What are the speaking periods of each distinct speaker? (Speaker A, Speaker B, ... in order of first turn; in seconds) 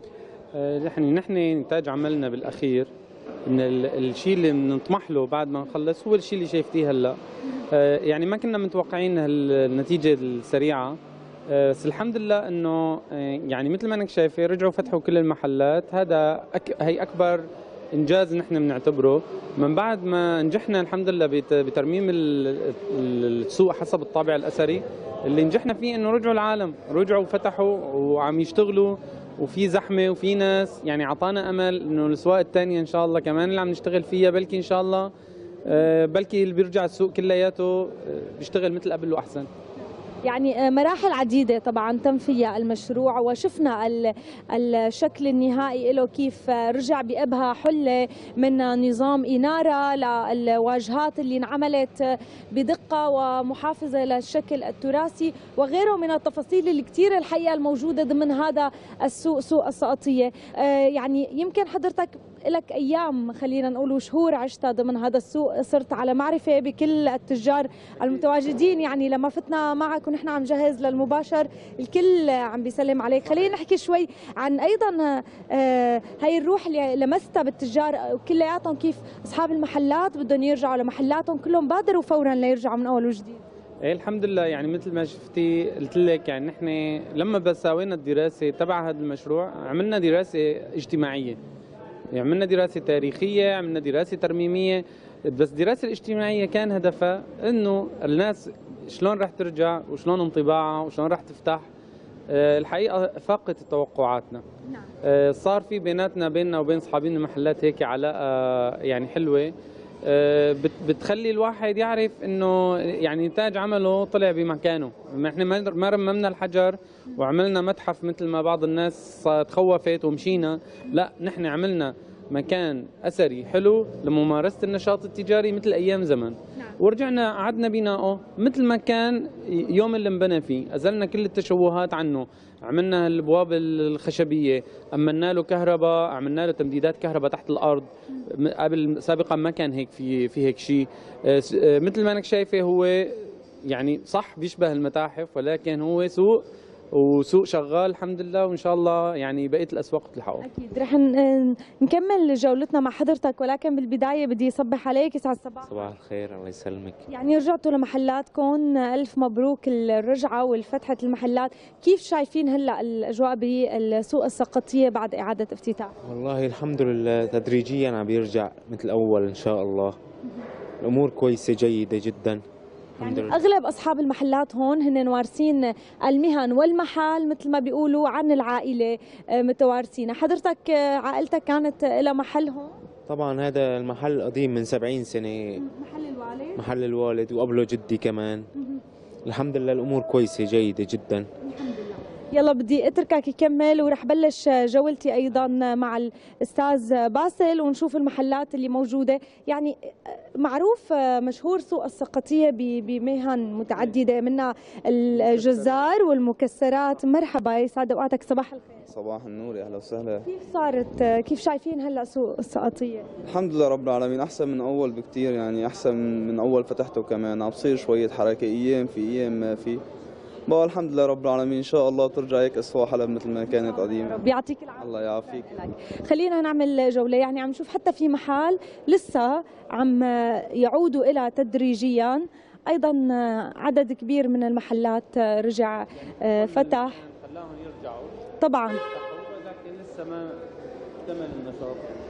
Speaker A: 0.5-2.9, 3.5-7.2, 7.7-35.1, 35.7-39.5, 83.8-91.4, 92.1-101.7, 102.3-104.4, 105.0-109.5, 110.0-146.4, 146.9-150.5, 205.2-205.8, 236.2-240.4, 241.1-242.0
Speaker B: 40.2-83.4, 150.4-155.8, 157.1-165.9, 173.0-182.8, 185.6-186.6, 191.4-208.9, 210.3-213.1, 223.5-237.0, 238.4-238.8
Speaker C: 155.7-157.0, 166.0-170.0, 170.8-172.4, 173.0-173.4, 183.1-185.6, 186.6-188.5, 189.2-191.3
Speaker D: 208.9-210.3, 213.3-219.8, 220.5-224.2, 224.8-225.5